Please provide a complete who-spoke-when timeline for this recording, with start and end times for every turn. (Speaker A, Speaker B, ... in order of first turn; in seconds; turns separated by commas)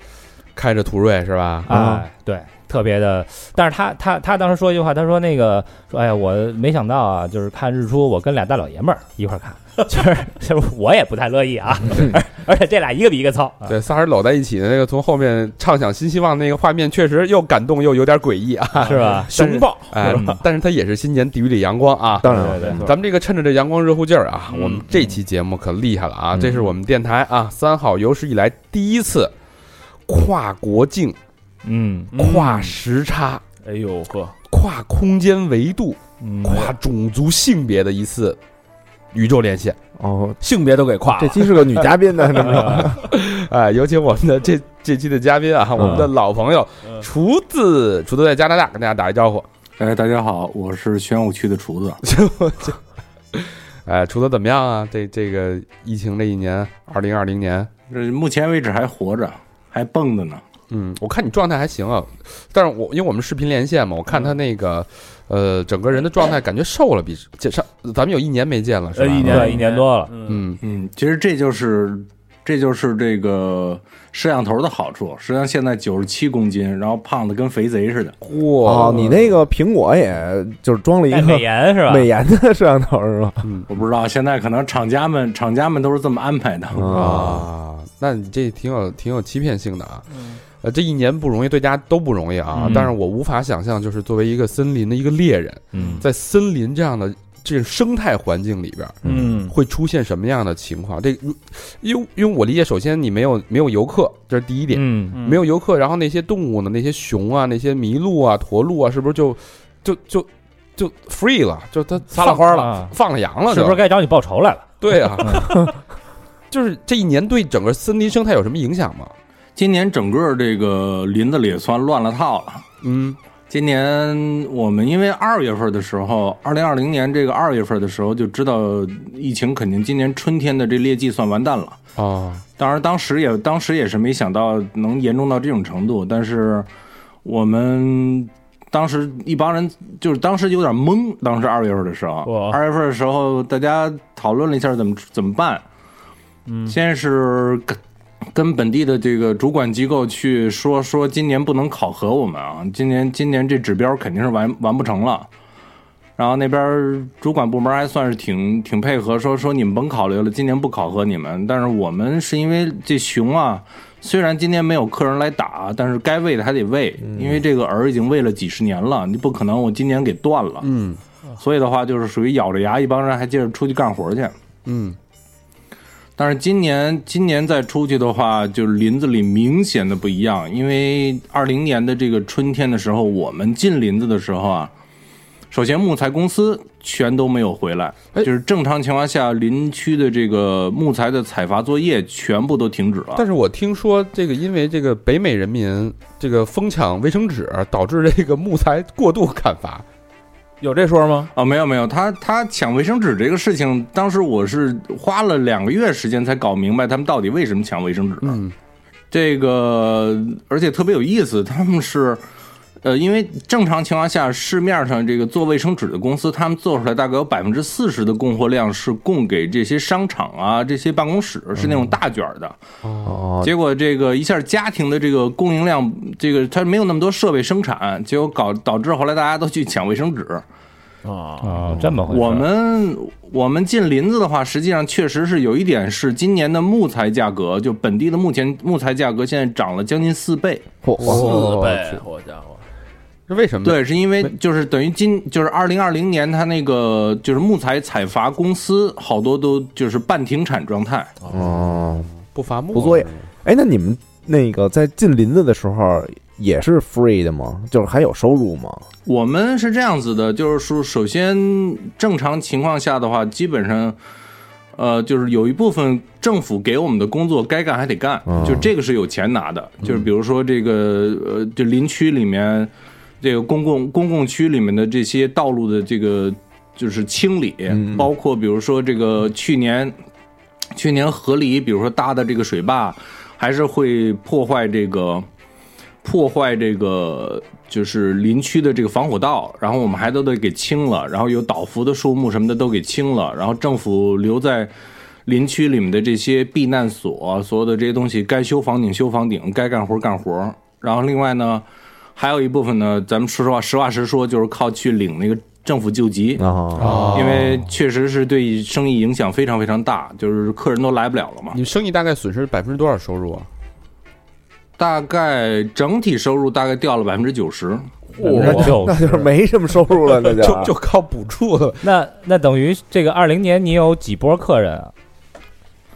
Speaker A: 0.5-1.7, Speaker B: 1.7-2.0, Speaker C: 1.7-13.8, Speaker A: 13.7-29.3, Speaker D: 18.8-20.4, Speaker C: 18.8-20.4, Speaker B: 22.2-22.8, Speaker C: 22.2-22.9, Speaker D: 22.6-22.9, Speaker D: 24.5-25.1, Speaker A: 30.1-31.2, Speaker C: 31.6-32.1, Speaker D: 32.1-32.8, Speaker A: 32.2-33.4, Speaker D: 33.6-34.3, Speaker A: 34.5-38.4, Speaker C: 36.2-36.7, Speaker A: 39.1-39.8, Speaker B: 40.0-40.4, Speaker D: 40.4-41.9, Speaker B: 41.2-43.0, Speaker D: 42.5-42.9, Speaker A: 42.5-49.5, Speaker B: 45.8-46.1, Speaker E: 49.8-52.0, Speaker A: 52.0-52.8, Speaker A: 53.3-57.7, Speaker E: 57.9-60.4, Speaker A: 60.7-69.6, Speaker D: 68.9-70.4, Speaker C: 69.2-70.1, Speaker A: 70.2-70.6, Speaker E: 70.6-78.2, Speaker A: 78.2-79.4, Speaker B: 78.6-83.4, Speaker C: 81.1-82.1, Speaker A: 83.4-83.7, Speaker E: 83.7-87.2, Speaker B: 86.7-87.5, Speaker A: 86.9-90.0, Speaker D: 90.1-90.4, Speaker A: 90.6-113.8, Speaker D: 92.5-92.9, Speaker C: 92.6-92.9, Speaker C: 95.7-96.0, Speaker D: 95.7-96.0, Speaker D: 99.0-99.5, Speaker C: 104.7-105.2, Speaker D: 105.1-105.4, Speaker C: 112.2-112.9, Speaker C: 113.5-115.4, Speaker A: 114.8-115.7, Speaker A: 116.5-119.1, Speaker E: 119.5-122.6, Speaker A: 122.8-123.2, Speaker E: 123.5-131.8, Speaker A: 131.9-132.4, Speaker E: 132.6-136.7, Speaker E: 137.2-145.6, Speaker D: 142.2-142.6, Speaker D: 146.4-146.8, Speaker E: 146.7-147.8, Speaker E: 148.3-155.3, Speaker E: 156.2-170.7, Speaker B: 167.0-167.4, Speaker A: 170.6-171.0, Speaker E: 171.4-174.3, Speaker A: 174.6-175.0, Speaker E: 176.2-184.7, Speaker E: 185.5-193.2, Speaker A: 193.2-199.8, Speaker D: 200.6-201.3, Speaker E: 201.3-208.4, Speaker A: 208.2-208.5, Speaker E: 209.1-212.2, Speaker E: 212.8-222.6, Speaker A: 222.8-223.2, Speaker B: 223.0-223.5, Speaker E: 223.4-230.4, Speaker D: 231.0-231.6, Speaker C: 231.4-232.5, Speaker E: 232.1-240.7, Speaker B: 240.8-241.9, Speaker A: 241.0-241.8, Speaker D: 241.0-242.7, Speaker A: 243.3-244.3, Speaker E: 243.6-251.1, Speaker B: 251.3-252.1, Speaker A: 252.3-253.2, Speaker B: 252.7-258.8, Speaker E: 259.1-263.9, Speaker E: 264.7-279.9, Speaker B: 268.2-268.7, Speaker B: 277.7-278.1, Speaker E: 280.7-285.2, Speaker E: 286.0-294.7, Speaker E: 295.2-301.6, Speaker E: 302.1-311.6, Speaker B: 306.4-307.3, Speaker A: 306.8-307.6, Speaker A: 311.5-313.5, Speaker E: 314.8-317.9, Speaker D: 318.2-318.8, Speaker C: 318.2-319.3, Speaker B: 318.3-320.7, Speaker A: 318.4-318.7, Speaker A: 320.1-321.8, Speaker C: 321.8-324.9